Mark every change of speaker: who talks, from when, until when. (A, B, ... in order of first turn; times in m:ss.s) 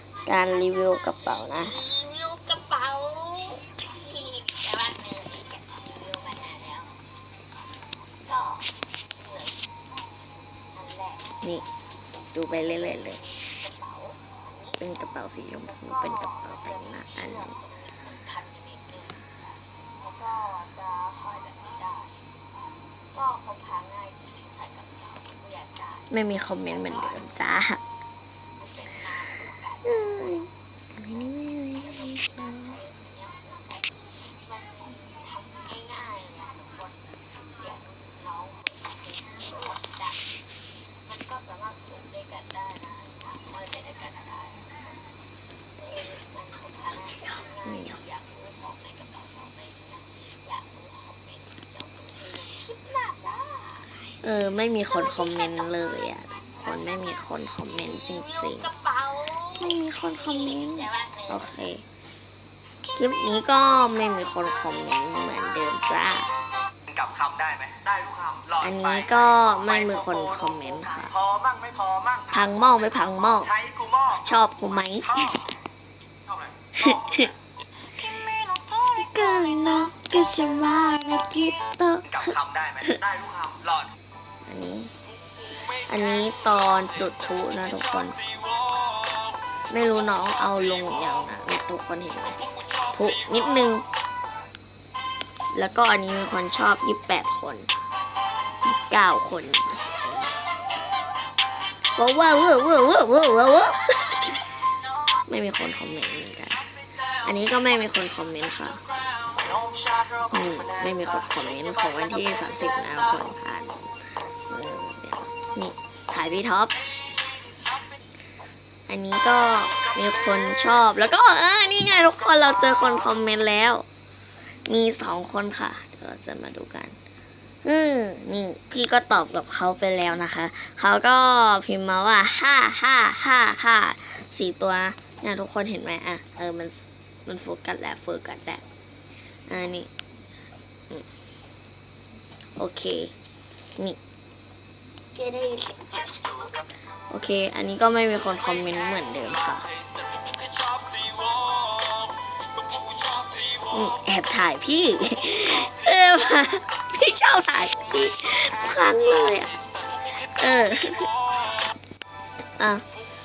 0:00.3-0:01.8 A
0:00.4-0:07.0 B
0:08.2-0:09.7 B
0:10.6-0:11.4 B
0:12.3-0:13.2 A
0:12.5-0:14.9 B
0:14.8-0:17.6 A
0:15.7-0:22.3 B
0:22.9-0:27.5 B
0:26.1-0:27.8 A
0:28.6-0:30.4 B
0:29.8-0:32.8 A
0:31.8-0:40.3 B
0:41.0-0:45.1 B
0:45.8-0:54.2 B
0:47.2-0:48.0 A
0:54.2-0:58.7 A
0:54.8-1:01.6 B
0:59.6-1:01.8 A
1:03.0-1:06.3 A
1:07.0-1:08.5 C
1:08.6-1:11.2 A
1:11.3-1:12.2 C
1:12.3-1:15.5 A
1:13.7-1:14.0 C
1:16.8-1:17.3 A
1:18.1-1:23.0 A
1:22.4-1:23.8 C
1:24.5-1:24.9 A
1:25.9-1:28.2 A
1:29.7-1:32.4 A
1:32.9-1:33.8 A
1:35.5-1:37.7 A
1:38.7-1:40.1 A
1:42.0-1:44.2 A
1:45.3-1:46.7 A
1:47.2-1:48.8 A
1:50.2-1:53.9 A
1:54.5-1:56.8 A
1:58.9-2:03.8 A
2:04.7-2:07.0 A
2:07.6-2:18.6 A
2:19.5-2:19.9 A
2:22.6-2:23.1 A
2:25.2-2:26.1 B
2:27.1-2:29.7 A
2:33.7-2:39.5 A
2:40.3-2:41.1 A
2:42.6-2:42.8 A